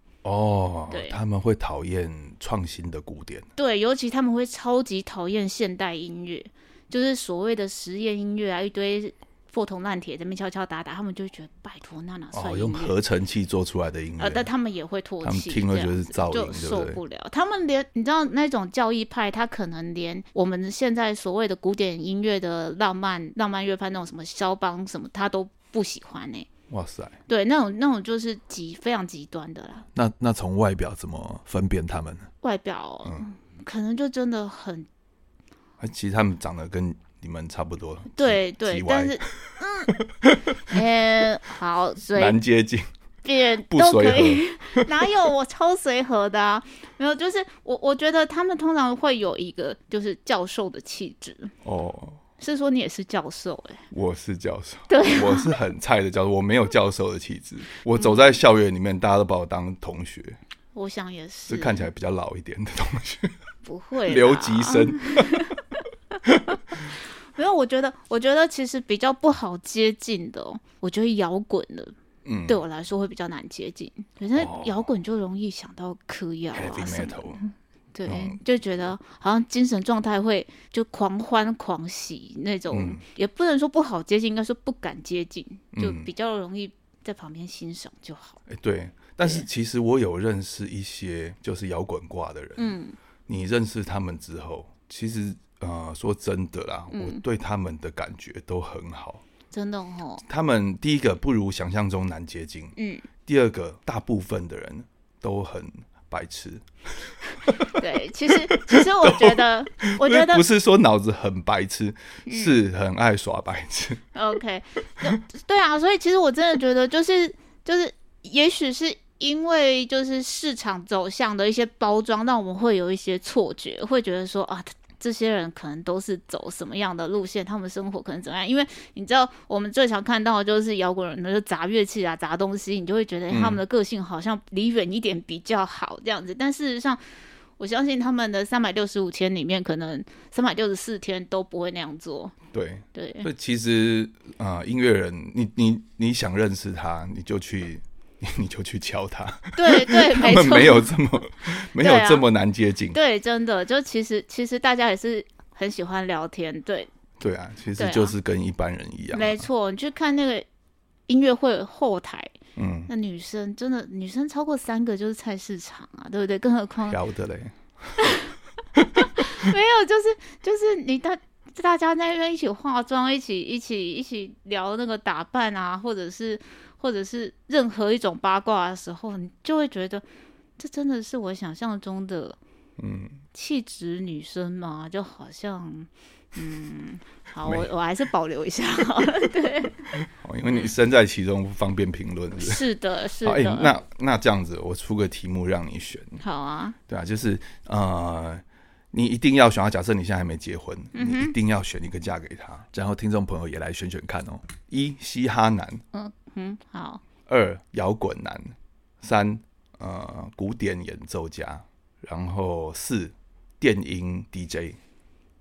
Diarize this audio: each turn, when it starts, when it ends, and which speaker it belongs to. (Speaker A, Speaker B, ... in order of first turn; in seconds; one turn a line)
Speaker A: 0.2-3.5
Speaker B: 0.9-1.2
Speaker B: 3.6-12.9
Speaker A: 12.3-14.5
Speaker B: 14.2-26.5
Speaker A: 15.2-17.0
Speaker A: 26.7-27.2
Speaker B: 27.3-29.9
Speaker A: 29.9-32.3
Speaker B: 32.4-34.9
Speaker A: 35.8-39.2
Speaker B: 38.2-40.0
Speaker A: 39.9-40.8
Speaker B: 40.7-42.4
Speaker A: 42.1-42.9
Speaker B: 43.2-51.5
Speaker A: 43.6-45.1
Speaker A: 51.6-52.2
Speaker B: 52.4-53.9
Speaker A: 53.9-60.4
Speaker B: 54.9-55.5
Speaker B: 58.0-58.4
Speaker B: 60.7-61.9
Speaker A: 61.5-63.3
Speaker B: 63.6-65.6
Speaker A: 64.1-65.5
Speaker A: 66.2-66.8
Speaker B: 67.4-71.9
Speaker A: 72.2-72.6
Speaker B: 72.5-88.4
Speaker A: 74.3-74.9
Speaker A: 76.5-77.4
Speaker A: 78.1-78.9
Speaker A: 82.7-83.0
Speaker A: 85.7-86.1
Speaker A: 88.5-92.7
Speaker B: 92.6-93.0
Speaker A: 93.3-99.2
Speaker B: 96.9-97.2
Speaker B: 99.5-100.2
Speaker A: 100.2-114.0
Speaker B: 102.8-103.1
Speaker B: 107.7-110.4
Speaker B: 112.3-112.5
Speaker B: 114.2-137.0
Speaker A: 133.3-133.6
Speaker B: 137.6-142.3
Speaker A: 142.5-153.0
Speaker B: 142.9-143.3
Speaker B: 149.6-150.9
Speaker B: 151.8-152.2
Speaker B: 152.9-156.9
Speaker A: 157.2-159.4
Speaker B: 157.8-158.2
Speaker B: 159.1-160.5
Speaker B: 161.1-162.3
Speaker A: 162.6-162.9
Speaker B: 162.9-167.0
Speaker A: 166.9-168.1
Speaker B: 168.0-168.3
Speaker A: 168.8-169.5
Speaker B: 169.0-180.0
Speaker B: 180.6-182.4
Speaker A: 182.8-183.2
Speaker B: 183.3-189.9
Speaker A: 187.4-187.7
Speaker A: 190.0-192.6
Speaker B: 192.4-193.8
Speaker A: 193.2-196.2
Speaker B: 196.2-196.8
Speaker A: 196.9-205.8
Speaker B: 200.9-201.3
Speaker B: 205.9-207.0
Speaker A: 207.3-214.8